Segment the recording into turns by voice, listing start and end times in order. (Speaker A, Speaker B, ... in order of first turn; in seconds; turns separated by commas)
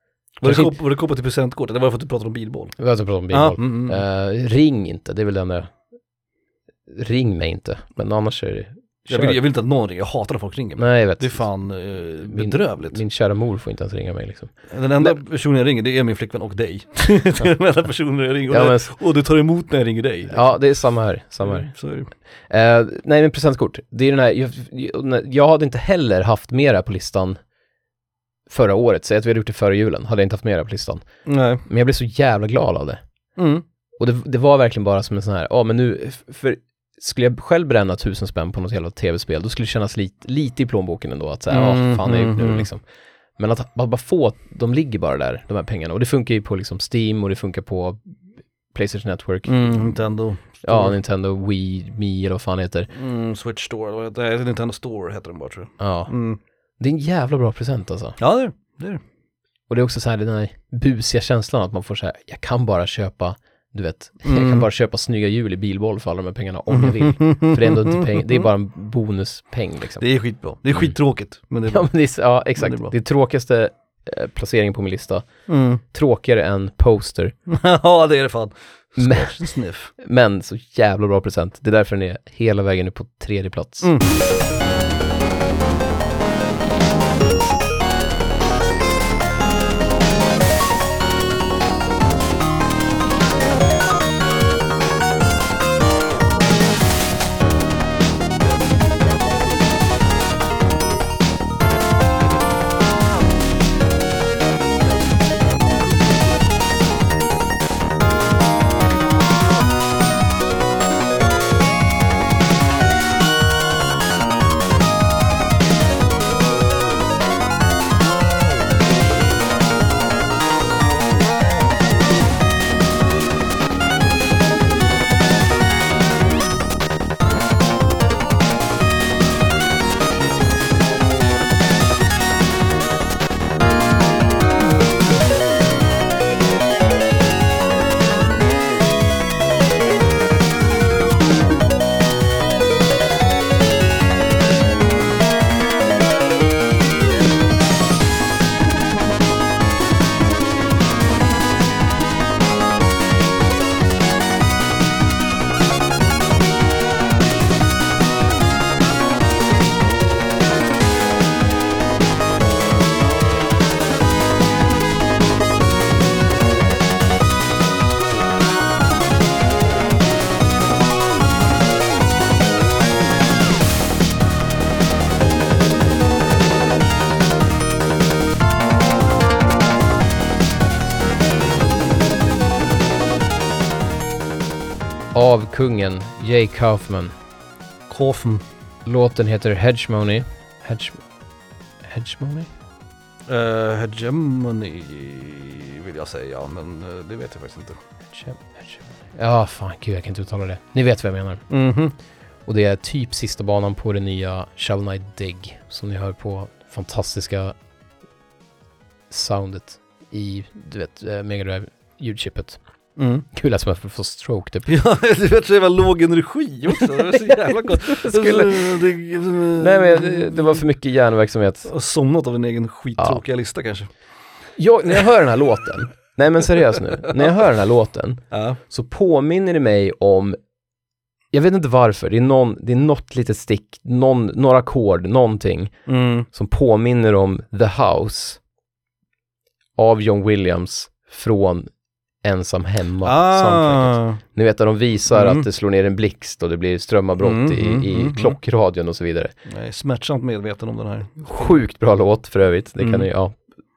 Speaker A: 0.4-2.7, Speaker B: 0.4-0.7, Speaker B: 2.8-5.7, Speaker A: 3.3-4.0, Speaker B: 6.9-9.4, Speaker A: 9.1-13.0, Speaker B: 10.8-11.4, Speaker B: 12.2-15.1, Speaker A: 14.7-20.6, Speaker B: 18.5-18.9, Speaker B: 20.3-21.7, Speaker A: 21.4-22.1, Speaker B: 22.5-27.4, Speaker B: 28.5-31.0, Speaker A: 31.2-31.6, Speaker B: 31.6-33.0, Speaker A: 33.4-33.6, Speaker B: 34.0-42.8, Speaker A: 41.5-42.7, Speaker B: 43.4-48.0, Speaker B: 48.7-50.0, Speaker A: 49.5-51.0, Speaker B: 50.6-52.9, Speaker A: 52.9-56.4, Speaker B: 55.8-56.1, Speaker B: 56.8-58.2, Speaker A: 58.2-59.0, Speaker B: 59.7-70.0, Speaker A: 64.2-64.7, Speaker A: 66.7-68.4, Speaker A: 70.0-71.9, Speaker B: 71.7-75.2, Speaker A: 72.5-72.9, Speaker A: 75.5-75.8, Speaker B: 75.9-77.3, Speaker A: 77.5-79.9, Speaker B: 79.0-79.4, Speaker B: 80.0-83.9, Speaker A: 83.8-84.1, Speaker B: 185.1-187.1, Speaker A: 187.9-188.4, Speaker B: 188.8-191.0, Speaker B: 191.8-192.5, Speaker A: 193.3-197.8, Speaker B: 198.1-201.4, Speaker A: 201.5-201.9, Speaker B: 202.4-207.5, Speaker B: 209.1-212.6, Speaker A: 213.0-213.2, Speaker B: 213.3-214.7, Speaker A: 214.7-220.6, Speaker B: 217.0-218.8, Speaker B: 219.6-221.7, Speaker A: 221.6-223.9, Speaker B: 224.6-230.4, Speaker A: 228.3-228.6, Speaker B: 231.3-235.7, Speaker A: 235.9-236.3, Speaker B: 236.3-238.4, Speaker B: 239.8-241.7, Speaker B: 242.2-249.3, Speaker A: 243.0-244.2, Speaker A: 245.1-245.4, Speaker A: 247.2-248.4, Speaker A: 249.5-251.6, Speaker B: 251.2-253.3, Speaker A: 252.8-253.1